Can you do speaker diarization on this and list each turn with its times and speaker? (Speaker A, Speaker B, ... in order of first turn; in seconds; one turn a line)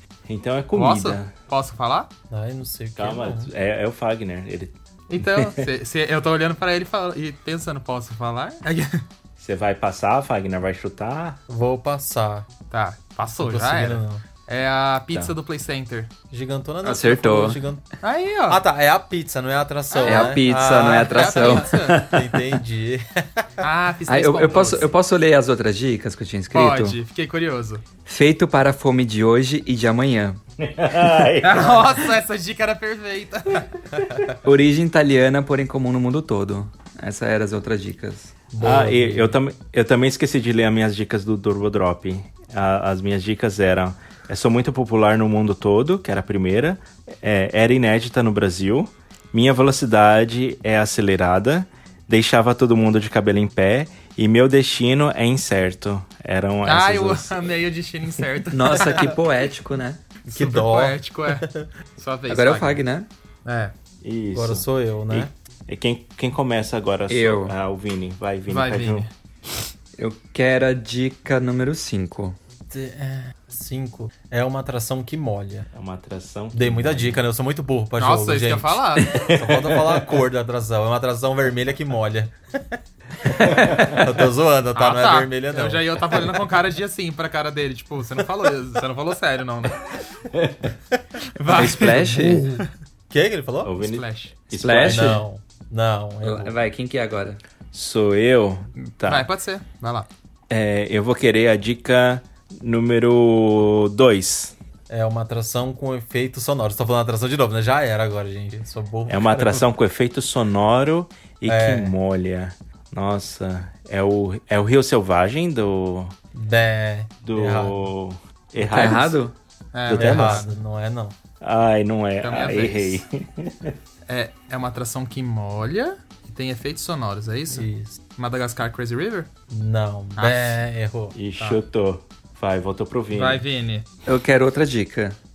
Speaker A: 0.3-1.3
Speaker B: 0.7-2.1
Speaker C: 2.3-3.5
Speaker A: 3.0-5.7
Speaker B: 5.1-9.0
Speaker A: 9.4-11.4
Speaker C: 11.5-12.5
Speaker B: 12.7-16.1
Speaker C: 13.3-14.2
Speaker C: 16.3-17.9
Speaker D: 16.8-17.6
Speaker B: 18.0-18.6
Speaker C: 18.5-23.5
Speaker B: 19.9-22.0
Speaker D: 20.0-22.4
Speaker B: 23.6-24.9
Speaker D: 24.1-27.0
Speaker B: 26.5-27.8
Speaker D: 28.1-30.4
Speaker A: 30.6-32.0
Speaker B: 31.4-33.8
Speaker D: 34.4-38.3
Speaker C: 38.5-39.4
Speaker A: 38.6-57.5
Speaker B: 56.6-59.1
Speaker D: 58.5-60.0
Speaker B: 60.3-62.8
Speaker C: 60.3-61.6
Speaker D: 62.3-63.1
Speaker B: 63.5-63.7
Speaker A: 64.0-69.1
Speaker C: 64.3-65.3
Speaker D: 67.1-67.5
Speaker B: 68.5-69.1
Speaker D: 70.0-72.4
Speaker C: 72.7-75.7
Speaker A: 75.7-77.2
Speaker C: 76.5-86.2
Speaker B: 78.0-79.2
Speaker A: 79.1-80.2
Speaker A: 83.5-84.0
Speaker B: 84.7-90.0
Speaker A: 90.3-90.7
Speaker B: 91.4-92.6
Speaker D: 91.5-92.5
Speaker C: 92.1-93.7
Speaker A: 93.6-95.2
Speaker B: 93.8-94.3
Speaker D: 94.6-95.2
Speaker C: 94.8-96.5
Speaker D: 96.2-97.4
Speaker A: 97.7-99.3
Speaker B: 98.9-100.1
Speaker A: 100.5-104.5
Speaker C: 104.9-109.7
Speaker A: 109.1-116.2
Speaker C: 111.5-111.9
Speaker C: 116.3-117.9
Speaker A: 117.2-119.2
Speaker D: 118.6-119.3
Speaker B: 119.7-120.5
Speaker A: 119.9-120.5
Speaker C: 119.9-121.1
Speaker A: 121.4-123.8
Speaker B: 122.2-123.0
Speaker B: 124.1-129.3
Speaker C: 127.5-128.0
Speaker C: 129.5-131.2
Speaker B: 130.2-130.6
Speaker A: 131.2-133.4
Speaker B: 133.1-133.9
Speaker D: 134.1-135.2